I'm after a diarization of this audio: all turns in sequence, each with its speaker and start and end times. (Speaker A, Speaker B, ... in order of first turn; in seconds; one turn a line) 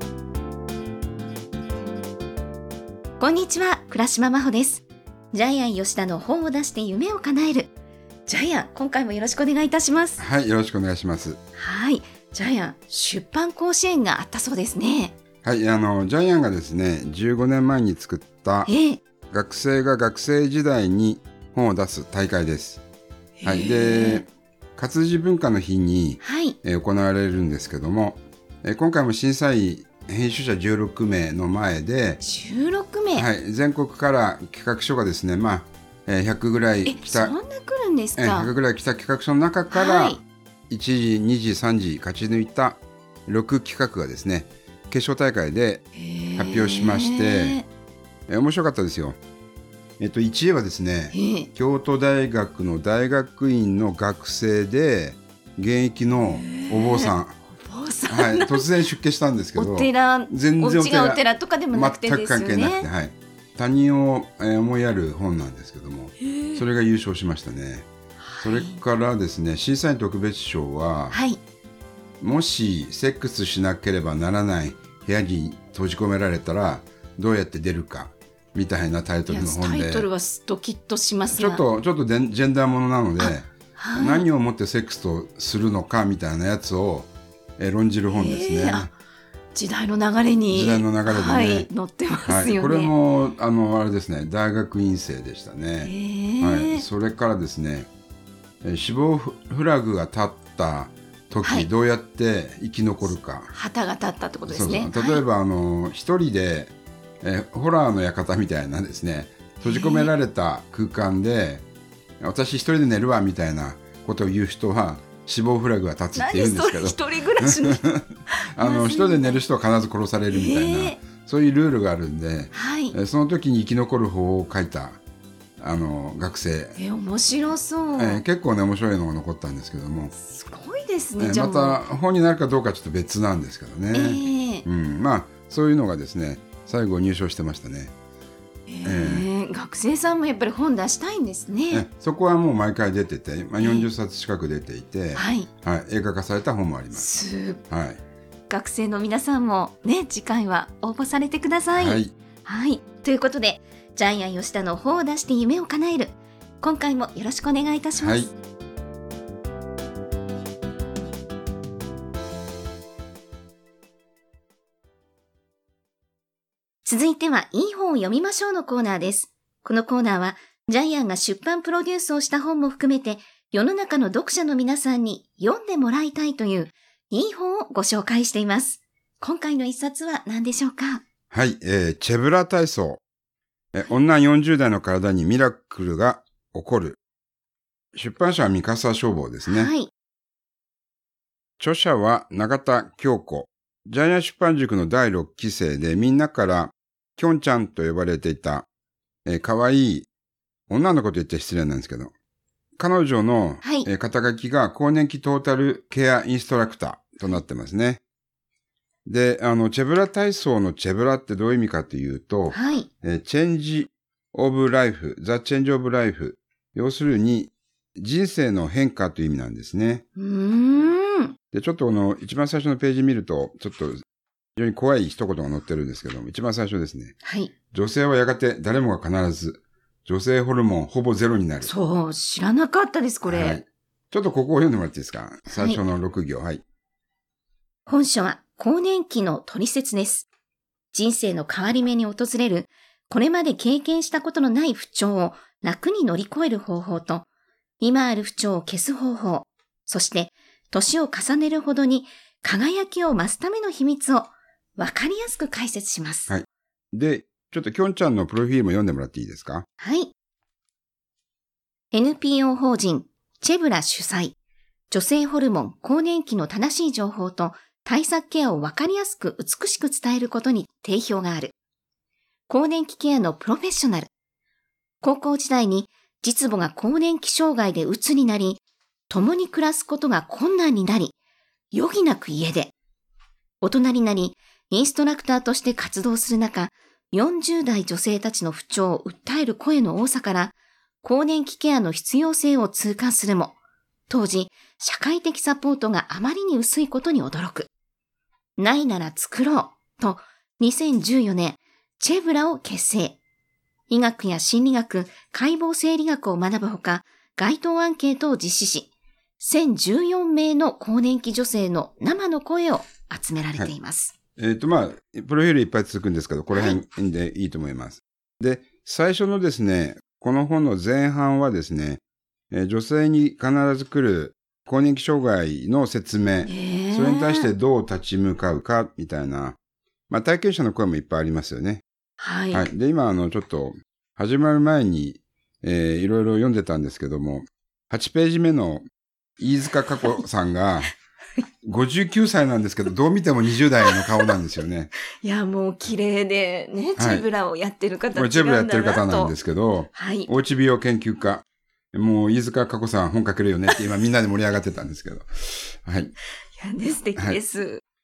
Speaker A: 3.2-7.7
Speaker A: 8.3-10.2
Speaker B: 10.2-11.4
Speaker A: 11.6-15.2
Speaker B: 15.4-18.7
Speaker A: 18.7-19.0
Speaker B: 19.3-22.8
Speaker A: 23.4-24.3
Speaker B: 23.4-32.2
Speaker A: 26.2-26.6
Speaker A: 32.2-33.3
Speaker B: 33.1-37.3
Speaker A: 36.8-38.5
Speaker B: 38.2-45.8
Speaker A: 39.7-40.2
Speaker A: 45.9-47.6
Speaker B: 46.4-47.6
Speaker B: 48.3-49.2
Speaker B: 50.0-57.4
Speaker A: 51.1-51.5
Speaker A: 56.2-58.7
Speaker B: 58.1-67.9
Speaker A: 59.5-62.9
Speaker A: 66.2-66.6
Speaker A: 68.2-68.8
Speaker B: 68.4-71.2
Speaker A: 71.1-71.4
Speaker B: 72.2-80.1
Speaker A: 79.3-81.6
Speaker B: 81.3-88.9
Speaker A: 83.2-84.2
Speaker A: 88.1-88.9
Speaker A: 89.5-92.9
Speaker B: 90.5-91.7
Speaker B: 92.2-97.9
Speaker A: 95.8-96.8
Speaker B: 98.6-103.5
Speaker A: 101.4-101.7
Speaker A: 103.5-105.2
Speaker B: 104.5-111.6
Speaker A: 109.6-110.1
Speaker B: 112.2-125.0
Speaker A: 116.1-119.4
Speaker A: 120.3-121.0
Speaker A: 122.5-123.0
Speaker B: 125.6-126.8
Speaker A: 126.7-128.2
Speaker B: 128.0-130.1
Speaker A: 130.2-131.8
Speaker B: 131.2-137.9
Speaker A: 133.9-134.7
Speaker A: 138.7-141.8
Speaker B: 138.8-139.3
Speaker B: 141.7-147.1
Speaker A: 143.6-143.9
Speaker A: 145.1-145.5
Speaker A: 146.9-147.6
Speaker B: 147.7-148.0
Speaker A: 148.5-158.3
Speaker B: 151.7-152.1
Speaker B: 158.0-158.3
Speaker A: 166.8-181.0
Speaker B: 181.3-183.0
Speaker B: 183.7-187.0
Speaker B: 187.9-189.7
Speaker A: 189.4-189.9
Speaker B: 191.6-198.7
Speaker B: 199.2-200.1
Speaker B: 200.7-202.1
Speaker B: 202.8-208.0
Speaker A: 203.6-203.9
Speaker B: 209.1-220.0
Speaker A: 212.5-212.9
Speaker A: 220.2-221.3
Speaker B: 221.5-224.0
Speaker B: 224.6-227.2
Speaker A: 227.2-227.5
Speaker B: 227.7-231.7
Speaker A: 231.6-233.6
Speaker B: 233.2-236.6
Speaker A: 235.5-235.8
Speaker A: 237.8-240.3
Speaker A: 240.9-247.2
Speaker A: 247.8-256.3
Speaker B: 256.3-259.6
Speaker A: 259.8-260.1
Speaker A: 261.9-264.3
Speaker A: 264.9-271.5
Speaker A: 272.5-274.1
Speaker A: 275.0-281.1
Speaker A: 281.7-282.7
Speaker A: 283.6-293.6
Speaker A: 294.1-297.7
Speaker A: 298.6-303.2
Speaker A: 303.9-314.1
Speaker B: 314.4-329.6
Speaker A: 316.5-316.8
Speaker A: 326.4-327.5
Speaker B: 330.1-331.8
Speaker A: 332.2-332.7
Speaker B: 332.5-338.8
Speaker B: 339.4-340.9
Speaker B: 341.6-344.9
Speaker A: 343.9-344.3
Speaker A: 345.1-349.3
Speaker B: 347.0-347.3
Speaker B: 348.1-351.4
Speaker A: 349.9-350.3
Speaker B: 351.9-356.1
Speaker A: 356.6-357.8